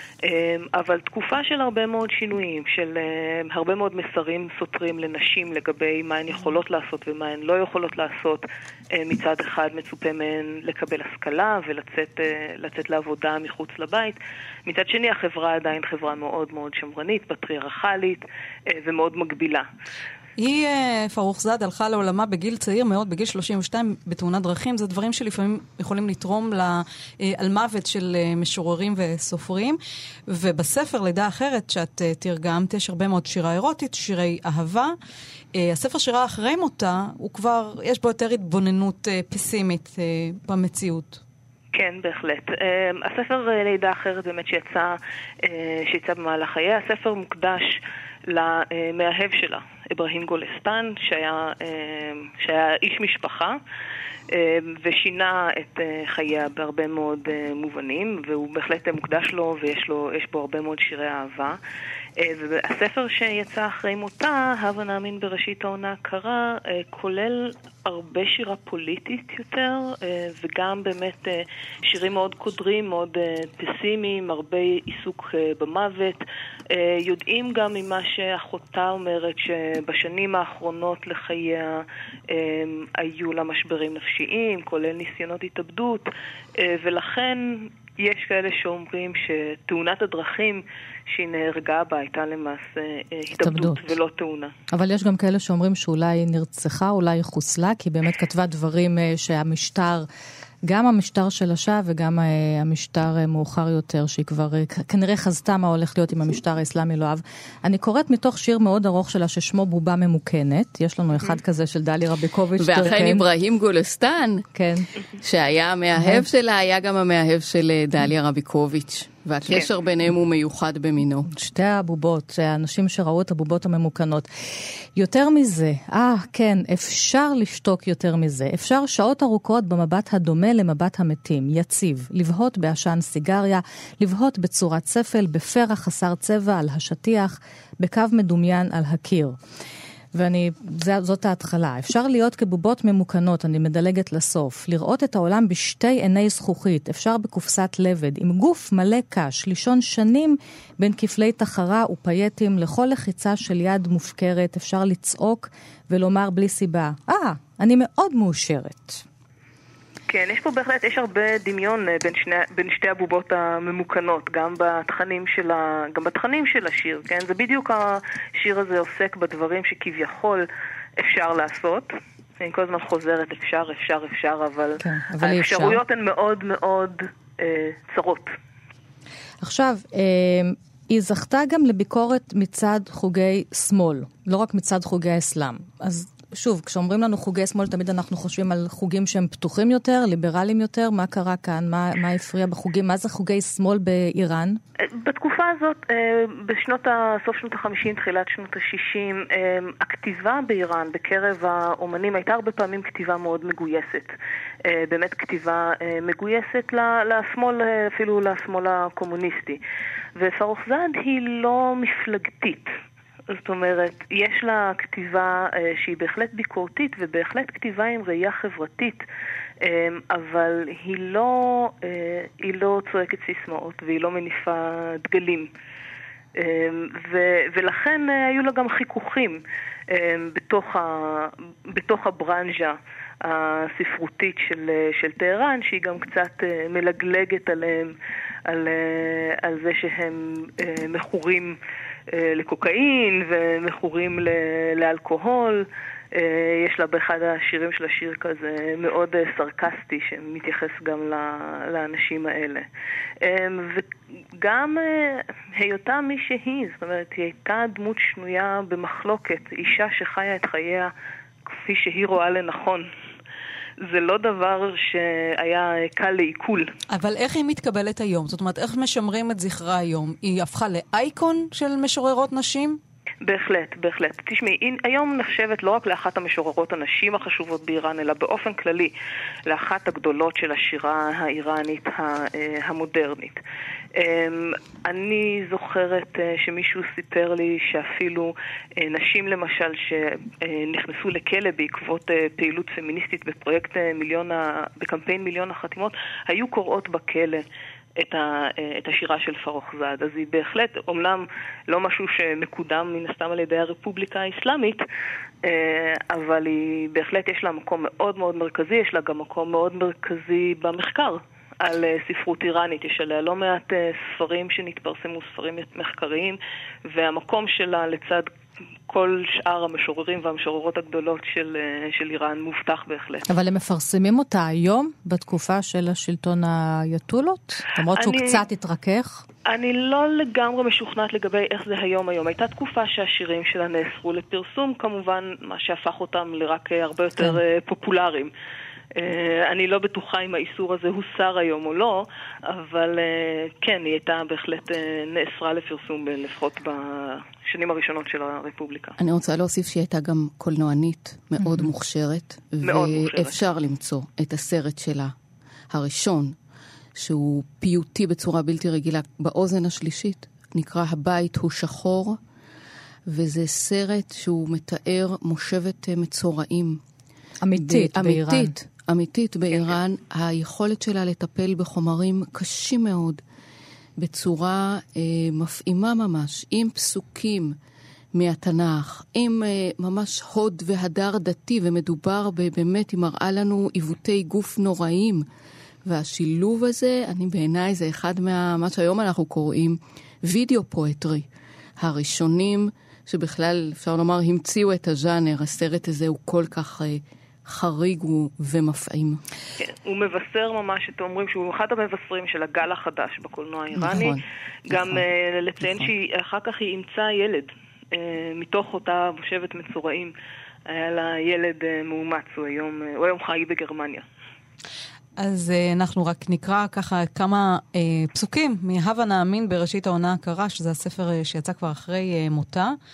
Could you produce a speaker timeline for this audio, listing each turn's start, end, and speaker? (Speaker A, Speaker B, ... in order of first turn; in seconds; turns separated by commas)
Speaker A: 0.2-19.7, Speaker B: 20.4-34.9, Speaker B: 35.5-41.2, Speaker A: 41.7-53.5, Speaker A: 54.3-61.6, Speaker A: 62.2-94.5, Speaker C: 93.3-93.9, Speaker C: 94.7-100.1, Speaker C: 100.7-113.2, Speaker D: 112.6-114.5, Speaker C: 114.5-114.9, Speaker D: 115.2-121.3, Speaker C: 116.0-116.2, Speaker C: 121.3-139.4, Speaker C: 140.1-159.0, Speaker A: 160.1-170.4, Speaker A: 171.0-178.3, Speaker C: 174.8-175.8, Speaker C: 179.4-194.6, Speaker A: 194.9-204.1, Speaker A: 204.6-209.6, Speaker A: 210.2-212.7, Speaker A: 213.3-219.0, Speaker A: 219.6-225.5, Speaker A: 226.3-237.9, Speaker A: 238.5-241.6, Speaker A: 242.1-252.7, Speaker A: 253.2-260.9, Speaker A: 261.5-262.9, Speaker A: 263.8-266.7, Speaker B: 266.9-272.8, Speaker A: 273.2-278.9, Speaker A: 279.4-283.4, Speaker A: 283.9-297.4, Speaker A: 298.0-304.8, Speaker A: 305.4-318.3, Speaker A: 318.9-323.2, Speaker C: 323.3-329.2, Speaker A: 327.9-328.4, Speaker A: 329.4-338.3, Speaker A: 338.9-348.9, Speaker D: 349.0-355.1, Speaker A: 352.6-353.4, Speaker D: 355.7-356.3, Speaker D: 356.9-362.2, Speaker D: 363.1-366.8, Speaker C: 367.4-368.6, Speaker D: 367.6-373.2, Speaker D: 374.0-377.5, Speaker D: 378.1-385.2, Speaker D: 385.8-391.2, Speaker D: 391.8-399.2, Speaker A: 399.6-410.1, Speaker D: 403.7-405.0, Speaker D: 405.6-405.9, Speaker A: 410.7-414.0, Speaker B: 415.2-422.8